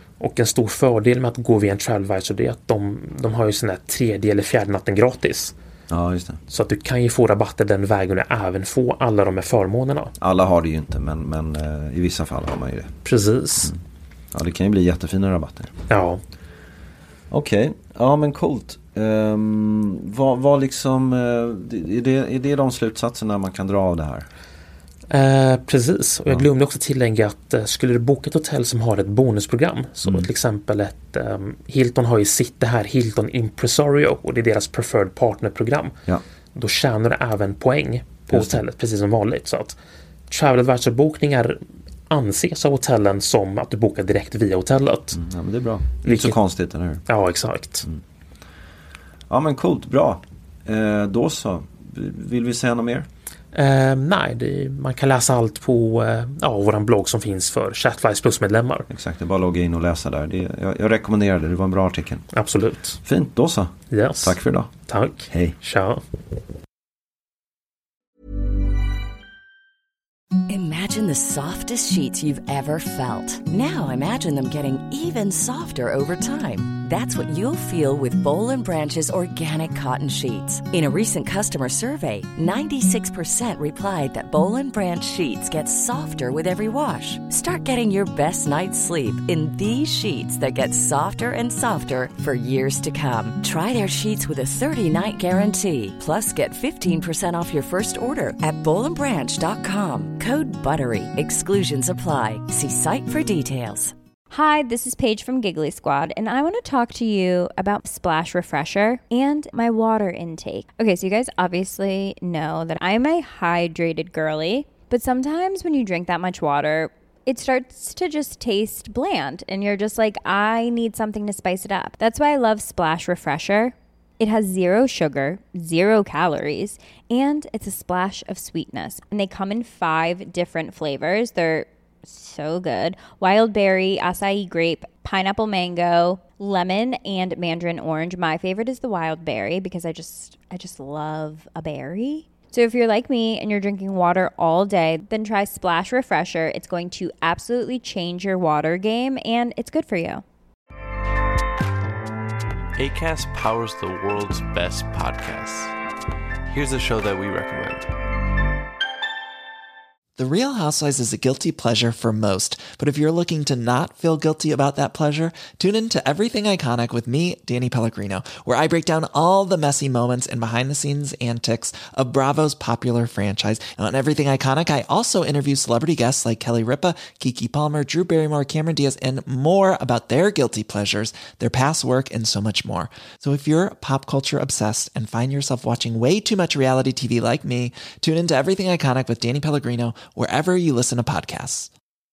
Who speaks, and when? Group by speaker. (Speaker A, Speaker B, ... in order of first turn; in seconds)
Speaker A: 0.2-5.5, 6.5-10.1, 13.1-13.7, 15.9-16.2, 25.1-36.0, 36.5-39.8, 40.3-45.2, 46.0-46.4, 47.1-47.9, 53.5-58.9, 62.3-63.0, 63.9-66.0
Speaker B: 5.9-6.4, 10.2-12.9, 14.3-15.7, 17.3-24.3, 38.3-38.5, 45.1-47.0, 49.3-53.1, 58.9-62.3, 63.0-64.7, 65.3-65.6
Speaker C: 70.5-103.9
Speaker D: 104.3-150.2
Speaker E: 152.8-155.8, 156.5-157.9
Speaker F: 160.2-191.7